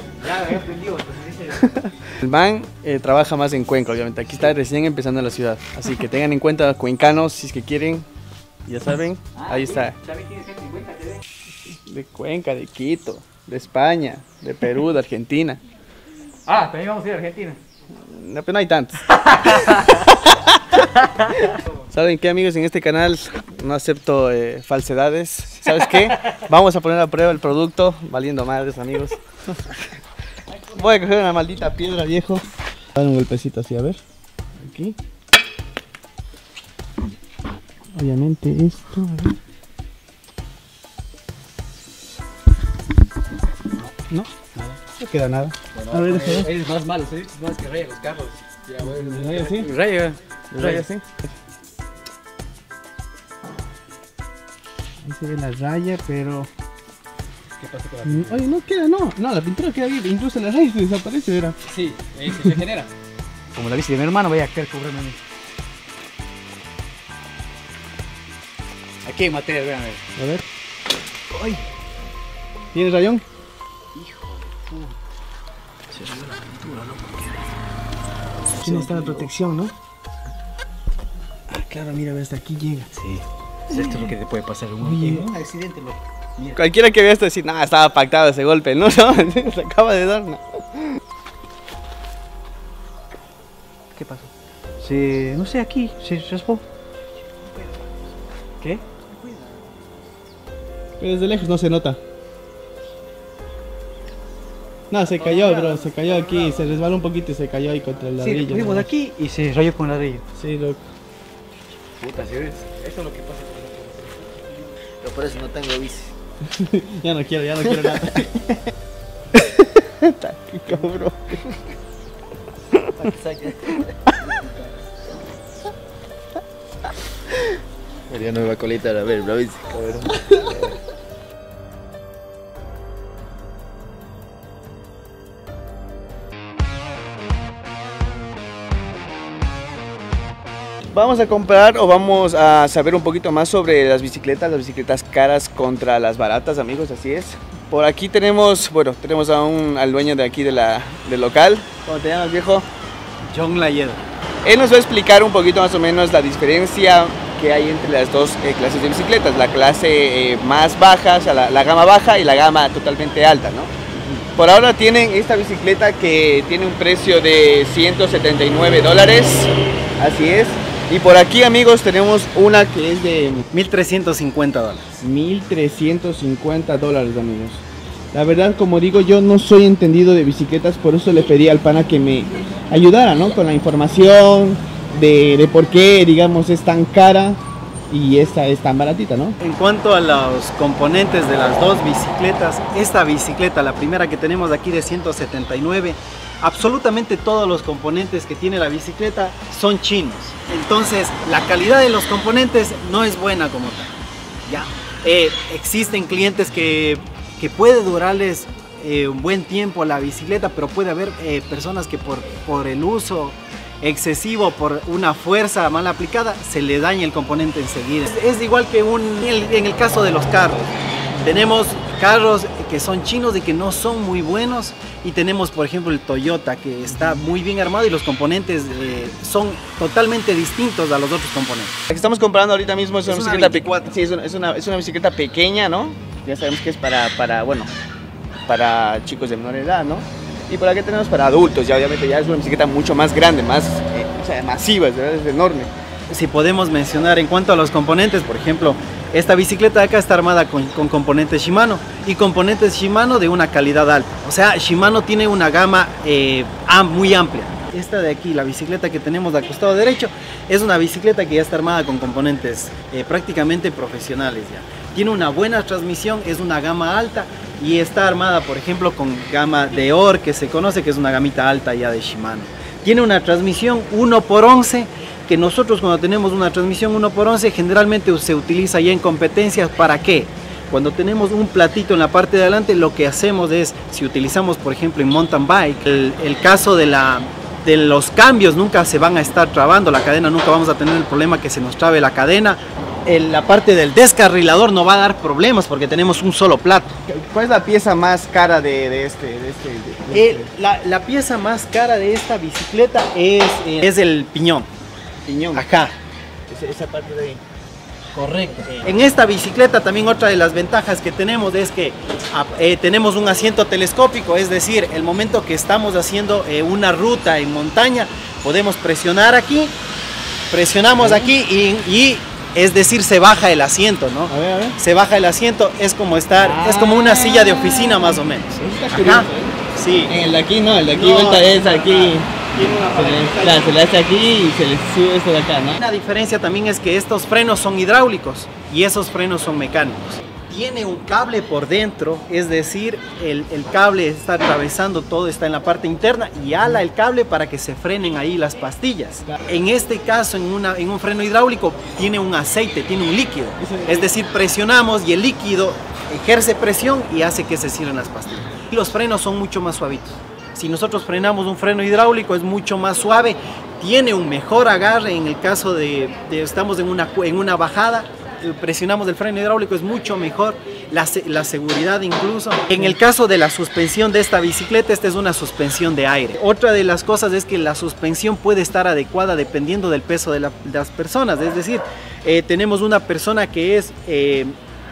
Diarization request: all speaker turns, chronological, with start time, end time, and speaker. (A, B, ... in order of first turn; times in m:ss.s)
0:00.2-0:01.8 A
0:01.8-0:08.0 B
0:08.6-0:10.0 B
0:09.3-0:11.2 A
0:11.9-0:15.6 B
0:16.4-0:17.6 A
0:18.1-0:20.9 B
0:19.1-0:20.1 A
0:21.0-0:21.4 A
0:21.4-0:29.8 B
0:25.7-0:26.4 A
0:30.7-0:32.4 B
0:33.0-0:34.0 B
0:34.6-0:35.0 B
0:37.9-0:39.3 B
0:44.9-0:46.5 B
0:45.7-0:50.8 A
0:48.8-0:49.7 B
0:50.5-0:51.2 B
0:55.0-0:56.5 B
0:57.6-0:58.5 A
0:58.0-1:01.6 B
1:01.6-1:02.9 A
1:03.5-1:05.2 A
1:09.0-1:10.0 A
1:10.2-1:10.4 B
1:11.3-1:11.6 A
1:12.7-1:13.2 B
1:13.9-1:14.9 A
1:15.9-1:17.3 A
1:18.6-1:19.3 A
1:18.6-1:19.7 B
1:21.5-1:22.9 B
1:22.9-1:26.6 A
1:23.7-1:24.1 B
1:24.8-1:25.3 B
1:26.6-1:31.0 B
1:34.0-1:34.2 A
1:34.8-1:36.6 A
1:41.0-1:42.0 B
1:44.9-1:48.9 B
1:45.2-1:45.9 A
1:48.2-1:50.2 A
1:50.3-1:50.8 B
1:52.0-1:54.1 A
1:55.0-1:56.1 C
1:56.5-1:58.6 B
1:59.4-2:01.6 B
2:02.7-2:03.0 B
2:03.0-2:03.9 C
2:08.1-2:10.7 C
2:20.9-2:32.7 B
2:33.2-2:34.0 D
2:34.4-2:53.4 B
2:53.5-2:54.9 D
2:55.0-3:09.4 B
3:09.4-3:23.9 D
3:24.4-3:51.7 D
3:51.9-3:57.7 B
3:53.0-3:54.0 D
3:58.5-4:05.7 B
4:06.1-4:57.0 D
4:57.1-5:00.5 B
5:00.1-5:04.7 D
5:05.2-5:05.6 B
5:05.5-5:05.9 D
5:06.5-5:07.4 B
5:08.1-5:19.7 D
5:20.5-5:30.1 D
5:21.0-5:21.3 B
5:24.3-5:24.8 B
5:26.4-5:35.8 B
5:30.8-5:33.7 D
5:35.8-6:24.5 D
5:53.6-5:54.1 B